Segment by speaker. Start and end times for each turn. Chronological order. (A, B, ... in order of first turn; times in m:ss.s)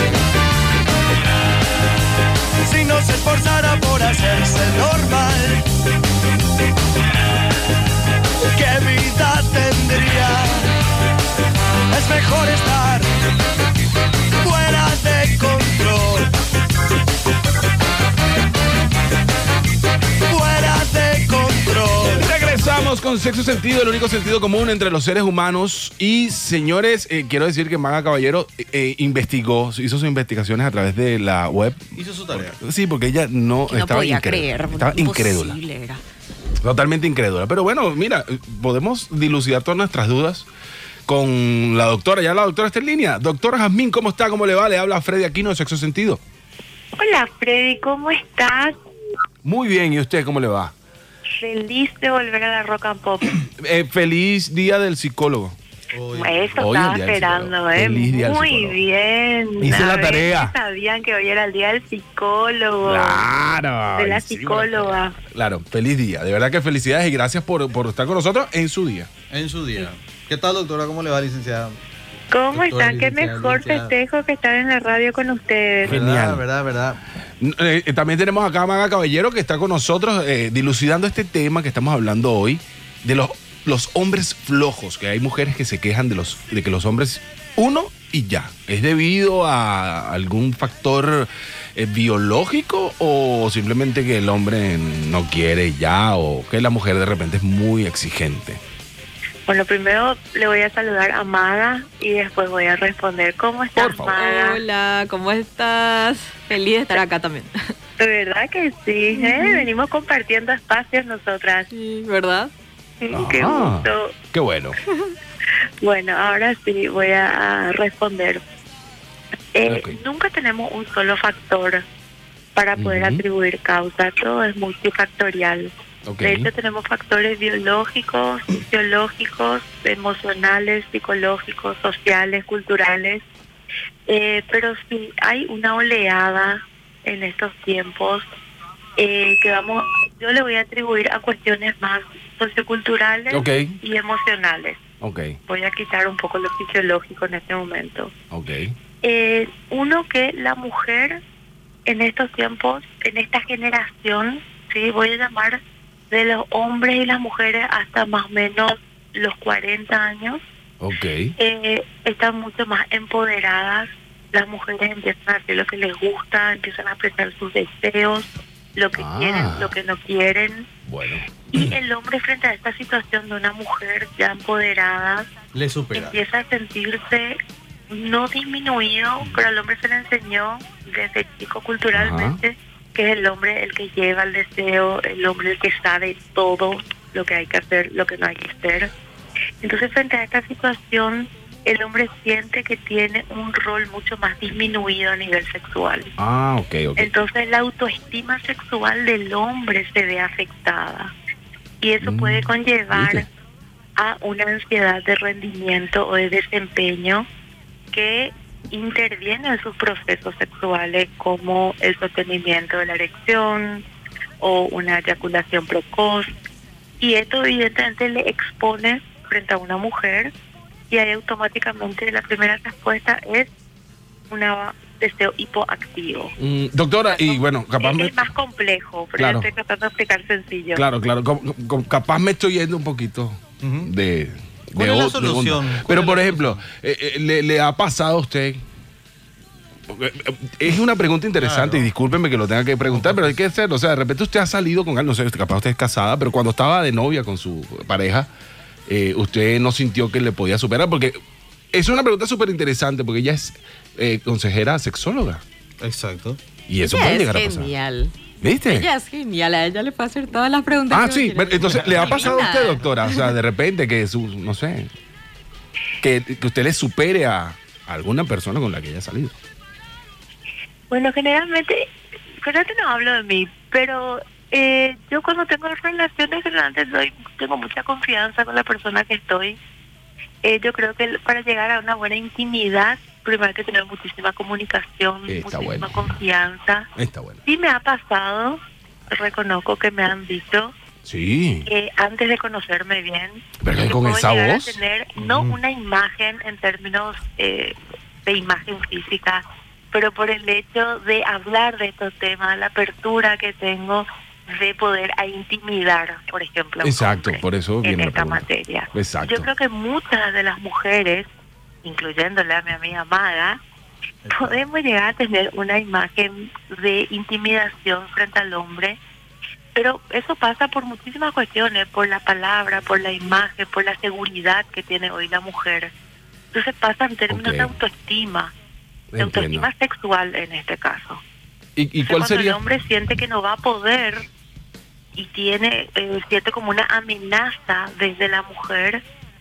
0:02.6-0:05.6 A
0:08.5-0:10.7 A
0:11.9-0:13.1 A
0:14.4-0:16.3 A
0:20.3-0:22.3 A
0:22.2-0:35.6 B
0:32.0-0:32.6 C
0:33.7-0:36.0 D
0:36.6-0:40.5 B
0:41.1-0:46.2 B
0:47.0-0:48.8 E
0:49.4-0:50.7 B
0:51.4-0:53.3 E
0:53.6-0:55.6 B
0:55.9-0:56.7 C
0:56.1-1:03.2 E
0:56.6-0:58.8 B
0:59.6-1:00.5 B
1:02.8-1:09.1 B
1:03.9-1:05.2 E
1:09.3-1:11.8 C
1:12.3-1:15.9 E
1:12.5-1:13.9 C
1:15.8-1:16.4 B
1:15.8-1:17.0 C
1:17.4-1:38.6 B
1:39.5-1:44.6 E
1:43.8-1:44.2 B
1:44.1-1:47.5 D
1:48.0-1:51.7 E
1:49.1-1:49.6 D
1:51.7-1:52.5 D
1:53.0-1:54.1 E
1:53.1-1:54.8 B
1:55.8-1:58.4 E
1:59.5-2:01.8 E
1:59.7-2:00.0 B
2:02.5-2:13.2 E
2:02.8-2:03.2 B
2:06.0-2:06.5 B
2:14.1-2:18.2 E
2:19.0-2:24.8 E
2:23.3-2:23.8 B
2:25.0-2:25.4 B
2:25.5-2:28.1 E
2:28.3-2:28.8 B
2:29.0-2:31.2 E
2:31.8-2:40.4 E
2:40.8-2:41.3 B
2:41.4-2:50.7 E
2:49.0-2:49.7 B
2:50.8-2:51.8 B
2:51.5-2:55.3 E
2:55.5-2:56.2 C
2:55.9-2:57.4 E
2:57.9-3:08.9 E
3:01.9-3:02.4 B
3:09.6-3:16.1 E
3:16.2-3:17.1 B
3:17.0-3:21.1 E
3:21.8-3:23.3 E
3:22.0-3:23.2 B
3:24.0-3:27.3 E
3:27.9-3:33.8 E
3:34.4-3:36.3 E
3:37.0-3:40.3 E
3:40.9-3:43.5 E
3:44.3-3:46.3 E
3:46.4-3:48.2 B
3:47.1-3:50.8 E
3:49.2-3:49.5 B
3:50.7-3:58.6 B
3:53.6-3:53.9 C
3:54.8-3:56.6 C
3:59.9-4:08.3 B
4:01.4-4:01.9 C
4:02.9-4:03.4 C
4:08.9-4:11.2 B
4:11.7-4:15.4 B
4:15.8-4:16.4 C
4:16.7-4:17.7 B
4:16.8-4:18.1 D
4:18.4-4:18.9 B
4:18.7-4:23.3 D
4:20.9-4:24.9 B
4:21.8-4:22.2 C
4:26.0-4:29.3 B
4:30.9-4:31.9 E
4:32.4-4:39.6 E
4:40.4-4:46.9 E
4:45.3-4:46.1 B
4:47.0-4:47.4 B
4:47.4-4:50.7 E
4:51.0-4:51.7 B
4:51.6-5:11.3 E
4:53.6-4:54.8 B
4:55.2-4:55.6 C
5:06.8-5:09.5 B
5:11.8-5:13.6 E
5:14.2-5:14.6 C
5:14.3-5:19.0 E
5:19.7-5:25.9 E
5:26.5-5:28.5 E
5:27.3-5:27.7 B
5:29.1-5:29.7 B
5:29.2-5:31.2 E
5:31.8-5:32.6 B
5:32.0-5:34.2 E
5:35.2-5:39.0 E